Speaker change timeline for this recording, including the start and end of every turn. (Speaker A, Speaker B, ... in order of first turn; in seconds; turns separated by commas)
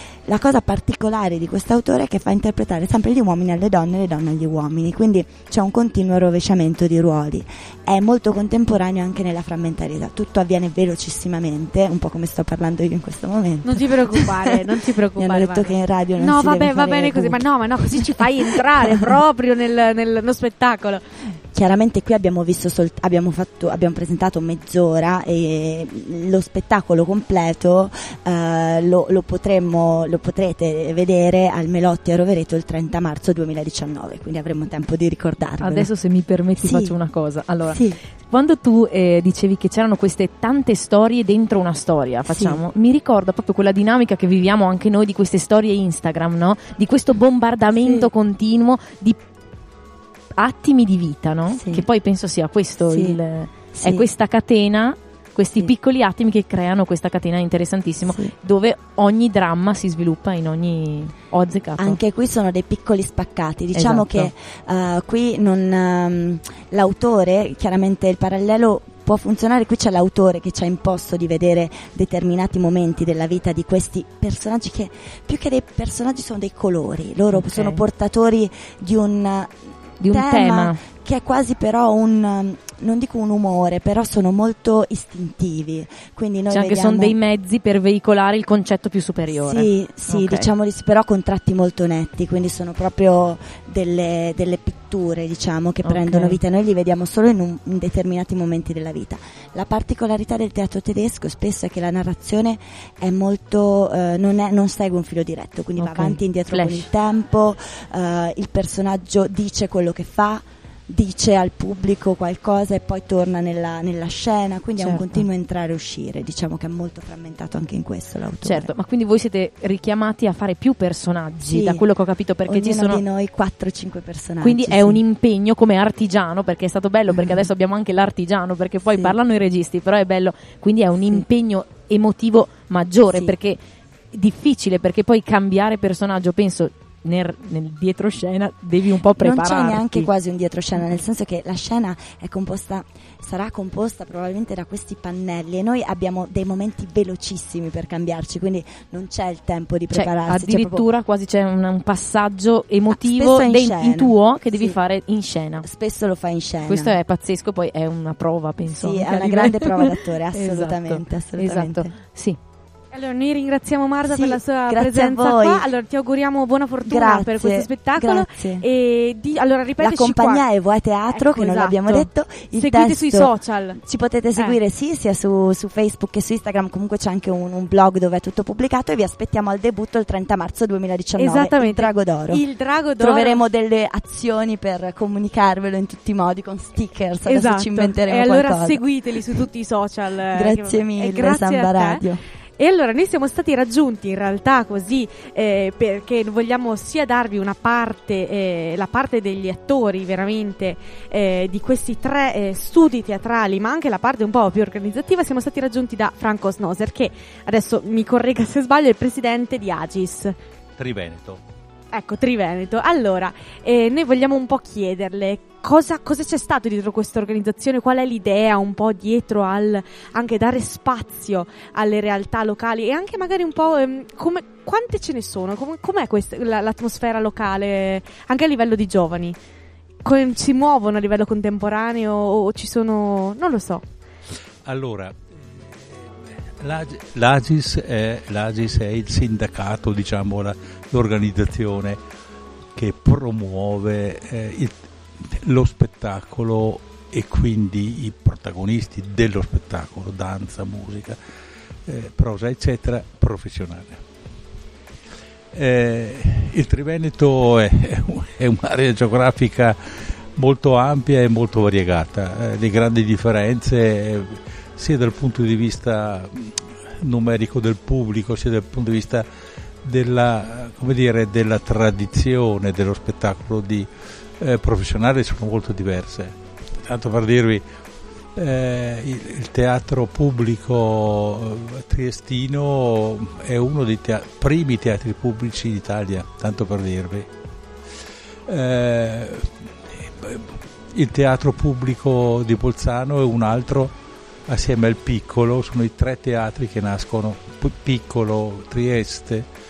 Speaker A: 0.3-19.1, Speaker B: 13.6-21.0, Speaker A: 21.5-35.9, Speaker C: 35.6-49.2, Speaker A: 36.6-37.0, Speaker A: 37.7-38.0, Speaker A: 42.3-42.6, Speaker A: 47.8-48.1, Speaker C: 50.3-62.0, Speaker A: 51.5-51.9, Speaker A: 52.8-53.2, Speaker A: 53.7-54.1, Speaker A: 58.1-58.3, Speaker A: 61.8-87.2, Speaker C: 63.7-64.3, Speaker C: 77.3-77.8, Speaker C: 80.0-80.8, Speaker C: 86.5-90.5, Speaker A: 89.3-118.7, Speaker C: 95.8-96.4, Speaker C: 105.8-106.9, Speaker C: 114.8-115.3, Speaker C: 118.4-123.0, Speaker A: 121.4-121.8, Speaker A: 122.5-125.0, Speaker C: 124.4-133.6, Speaker A: 127.1-127.4, Speaker A: 128.9-129.2, Speaker C: 134.1-140.1, Speaker A: 139.1-150.8, Speaker C: 149.9-155.7, Speaker A: 152.9-154.8, Speaker A: 155.6-157.0, Speaker C: 156.7-162.4, Speaker A: 158.6-161.9, Speaker B: 162.9-170.4, Speaker A: 164.1-165.7, Speaker A: 166.8-168.7, Speaker A: 169.8-182.4, Speaker B: 171.1-173.8, Speaker B: 181.2-183.4, Speaker A: 183.0-189.4, Speaker B: 187.3-192.1, Speaker A: 190.3-192.2, Speaker B: 192.6-210.3, Speaker D: 210.8-211.4, Speaker B: 211.9-229.4, Speaker B: 230.1-233.8, Speaker D: 234.7-242.0, Speaker D: 242.8-251.2, Speaker D: 251.9-254.0, Speaker D: 255.5-259.8, Speaker D: 260.4-269.3, Speaker D: 269.8-277.6, Speaker D: 278.4-287.3, Speaker D: 288.5-293.9, Speaker D: 294.5-299.5